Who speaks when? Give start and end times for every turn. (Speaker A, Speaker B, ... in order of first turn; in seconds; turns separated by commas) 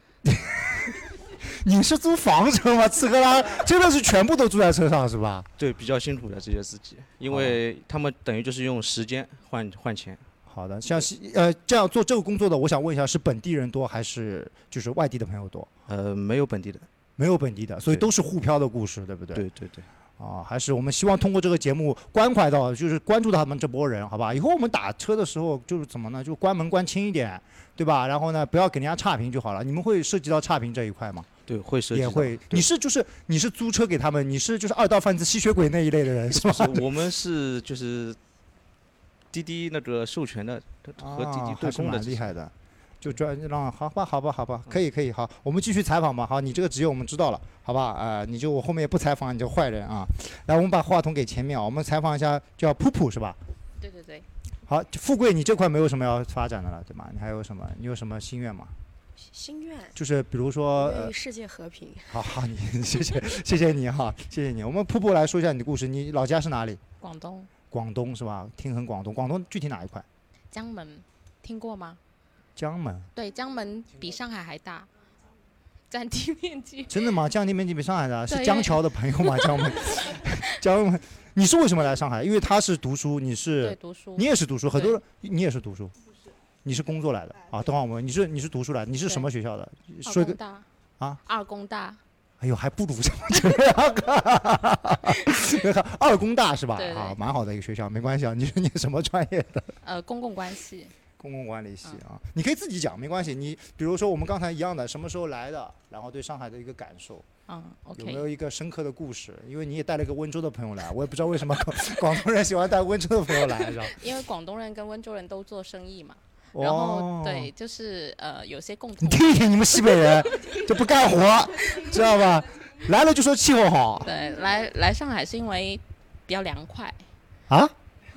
Speaker A: 0.2-5.5, Speaker B: 5.6-10.2, Speaker A: 7.2-7.6, Speaker A: 10.5-15.7, Speaker B: 15.9-16.9, Speaker A: 17.2-19.4, Speaker B: 19.3-19.9, Speaker A: 20.2-31.3, Speaker B: 31.5-32.7, Speaker A: 31.9-36.8, Speaker B: 36.4-38.2, Speaker B: 39.3-42.4, Speaker A: 41.0-53.4, Speaker C: 53.8-54.2, Speaker A: 54.6-58.7, Speaker D: 59.2-60.0, Speaker A: 59.9-61.1, Speaker D: 60.8-62.2, Speaker A: 62.1-66.8, Speaker C: 67.0-67.5, Speaker A: 67.7-70.0, Speaker C: 70.5-72.0, Speaker A: 72.5-73.1, Speaker C: 73.1-74.9, Speaker C: 75.9-77.0, Speaker A: 76.9-85.9, Speaker C: 78.3-79.9, Speaker C: 83.6-85.0, Speaker A: 86.6-90.4, Speaker C: 90.0-90.7, Speaker C: 91.2-92.0, Speaker A: 92.4-99.7, Speaker C: 96.8-97.2, Speaker C: 99.8-100.9, Speaker A: 101.2-107.2, Speaker C: 107.5-108.2, Speaker A: 107.9-114.0, Speaker C: 113.9-119.5, Speaker A: 116.5-117.5, Speaker A: 119.0-124.1, Speaker C: 124.0-127.0, Speaker A: 127.5-127.7